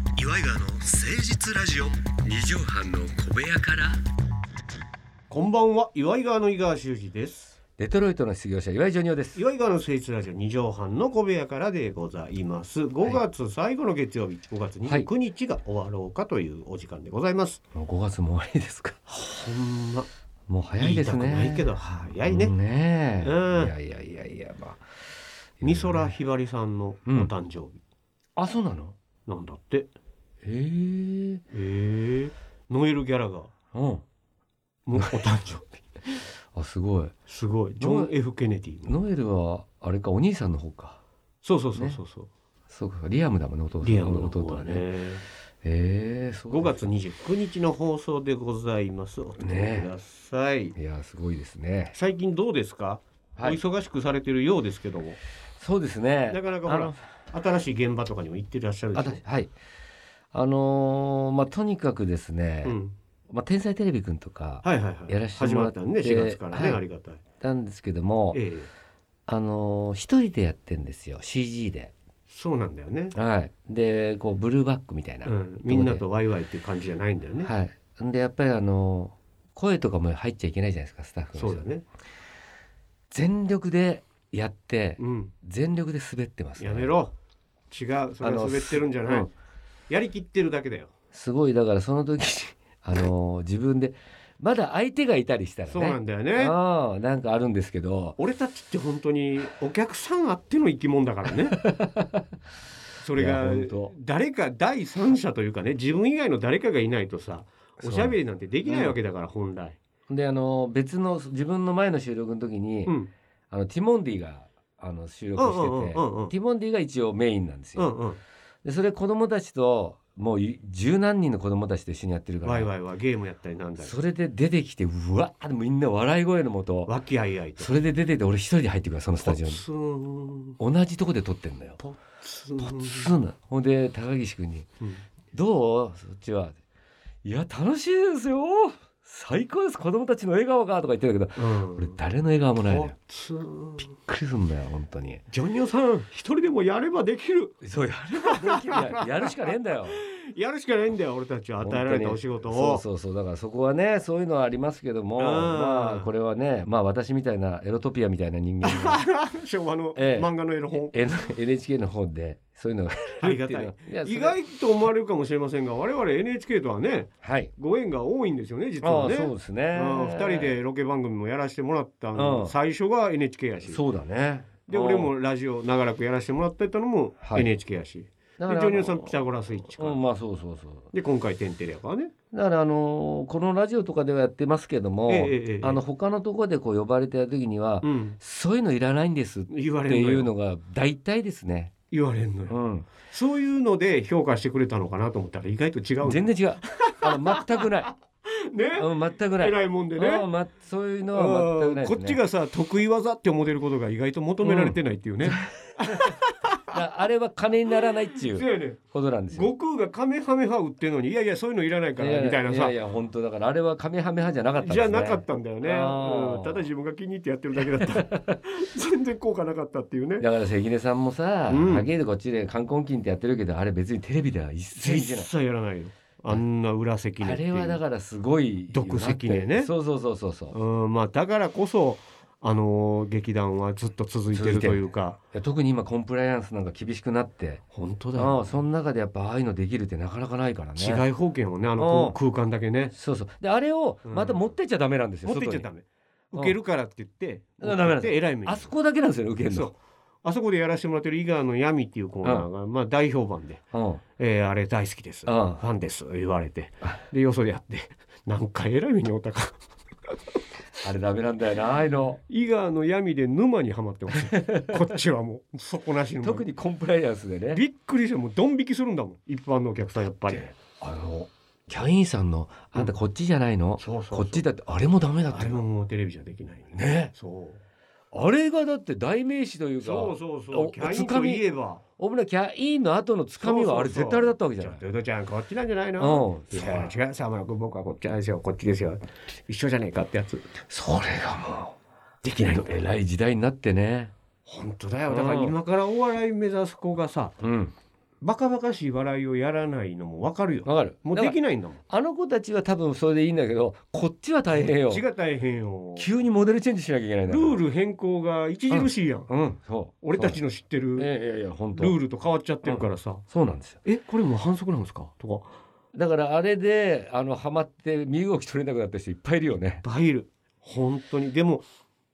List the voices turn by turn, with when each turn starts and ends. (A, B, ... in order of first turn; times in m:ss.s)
0:00.2-0:02.0 A
0:02.1-0:04.0 B
0:05.3-0:07.6 A
0:07.8-0:09.4 B
0:09.4-0:17.6 A
0:17.8-0:19.0 B
0:19.1-0:20.1 A
0:20.5-0:24.8 B
0:20.8-0:22.5 A
0:23.2-0:23.7 A
0:25.6-0:26.1 B
0:25.6-0:27.8 A
0:27.1-0:27.3 B
0:28.4-0:29.0 B
0:29.3-0:29.9 A
0:30.4-0:31.4 B
0:31.5-0:33.5 A
0:33.7-0:34.0 B
0:34.9-0:35.8 A
0:36.5-0:37.1 B
0:37.3-0:38.9 A
0:37.8-0:38.1 B
0:38.8-0:41.0 B
0:41.4-0:42.3 A
0:41.8-0:42.0 B
0:42.7-0:44.9 B
0:43.8-0:45.2 A
0:45.6-0:46.8 B
0:46.5-0:50.8 A
0:49.4-0:49.9 B
0:50.8-0:51.9 B
0:51.9-0:55.2 A
0:55.6-0:57.0 B
0:56.3-0:59.2 A
0:59.0-0:59.5 B
1:00.3-1:02.8 B
1:02.6-1:03.0 A
1:03.3-1:06.8 B
1:04.6-1:07.2 A
1:07.4-1:08.4 B
1:08.3-1:08.7 A
1:09.3-1:11.9 B
1:12.3-1:13.2 A
1:13.1-1:16.0 B
1:15.2-1:17.5 A
1:17.4-1:21.7 B
1:21.4-1:21.8 A
1:23.1-1:26.9 B
1:25.0-1:25.3 A
1:26.6-1:27.1 A
1:27.7-1:29.3 A
1:28.2-1:29.3 B
1:29.9-1:30.9 A
1:31.1-1:38.2 B
1:35.7-1:36.5 A
1:38.2-1:41.6 A
1:41.5-1:42.2 B
1:43.0-1:49.8 A
1:43.2-1:43.9 B
1:47.8-1:49.0 B
1:50.1-1:53.0 B
1:52.9-1:53.1 A
1:53.5-1:57.9 B
1:55.4-1:56.3 A
1:57.8-1:58.2 A
1:58.6-2:02.7 B
2:02.4-2:04.0 A
2:03.8-2:06.9 B
2:06.9-2:07.7 A
2:07.6-2:09.6 B
2:09.2-2:10.6 A
2:10.6-2:11.8 B
2:11.8-2:13.1 A
2:12.6-2:14.7 B
2:15.3-2:16.6 B
2:17.2-2:23.0 B
2:21.4-2:22.0 A
2:22.7-2:23.9 A
2:23.8-2:25.2 B
2:25.3-2:27.6 A
2:27.6-2:30.0 B
2:28.1-2:32.8 A
2:31.6-2:39.0 B
2:35.2-2:36.1 A
2:38.6-2:41.0 A
2:40.0-2:40.3 B
2:40.9-2:44.4 B
2:43.2-2:53.8 A
2:47.2-2:47.5 B
2:48.8-2:50.6 B
2:52.2-2:52.6 B
2:53.7-2:55.1 B
2:54.7-3:00.0 A
2:57.2-2:57.5 B
2:58.4-2:59.2 B
2:59.8-3:00.9 B
3:00.9-3:02.1 A
3:02.3-3:11.7 B
3:05.1-3:05.8 A
3:07.8-3:08.2 A
3:09.5-3:10.3 A
3:11.9-3:12.6 A
3:12.5-3:12.9 B
3:13.1-3:17.7 A
3:16.0-3:17.9 B
3:18.5-3:20.3 A
3:18.8-3:22.2 B
3:21.1-3:26.8 A
3:24.4-3:26.1 B
3:26.7-3:29.5 B
3:28.2-3:28.8 A
3:29.3-3:32.8 A
3:32.0-3:36.6 B
3:34.6-3:40.3 A
3:37.7-3:38.4 B
3:40.2-3:45.3 B
3:41.5-3:41.9 A
3:44.8-3:47.8 A
3:47.2-3:50.6 B
3:48.7-3:49.7 A
3:50.5-3:55.2 A
3:54.3-3:57.6 B
3:57.7-3:58.4 A
3:58.2-4:01.0 B
4:00.8-4:02.9 A
4:01.8-4:02.2 B
4:02.9-4:05.7 B
4:04.1-4:04.4 A
4:05.2-4:08.7 A
4:07.6-4:09.7 B
4:09.5-4:13.6 A
4:13.7-4:14.0 B
4:14.2-4:19.6 A
4:15.3-4:15.6 B
4:20.8-4:22.2 B
4:22.3-4:26.5 A
4:24.2-4:24.9 B
4:26.2-4:27.6 B
4:27.5-4:30.5 A
4:30.3-4:35.6 B
4:33.8-4:34.5 A
4:35.3-4:37.6 A
4:36.7-4:37.1 B
4:38.1-4:41.4 B
4:39.8-4:41.8 A
4:42.0-4:44.8 B
4:43.4-4:50.5 A
4:46.0-4:46.9 B
4:50.7-4:54.1 B
4:54.5-4:57.4 A
4:55.1-4:55.6 B
4:57.4-4:57.7 B
4:58.2-5:01.8 A
5:00.6-5:01.4 B
5:01.9-5:05.0 B
5:04.6-5:06.1 A
5:06.0-5:07.6 B
5:07.3-5:09.3 A
5:08.7-5:10.4 B
5:10.0-5:11.1 A
5:11.0-5:12.0 B
5:11.8-5:13.2 A
5:12.6-5:13.8 B
5:13.8-5:15.5 A
5:15.9-5:19.8 B
5:19.8-5:21.6 A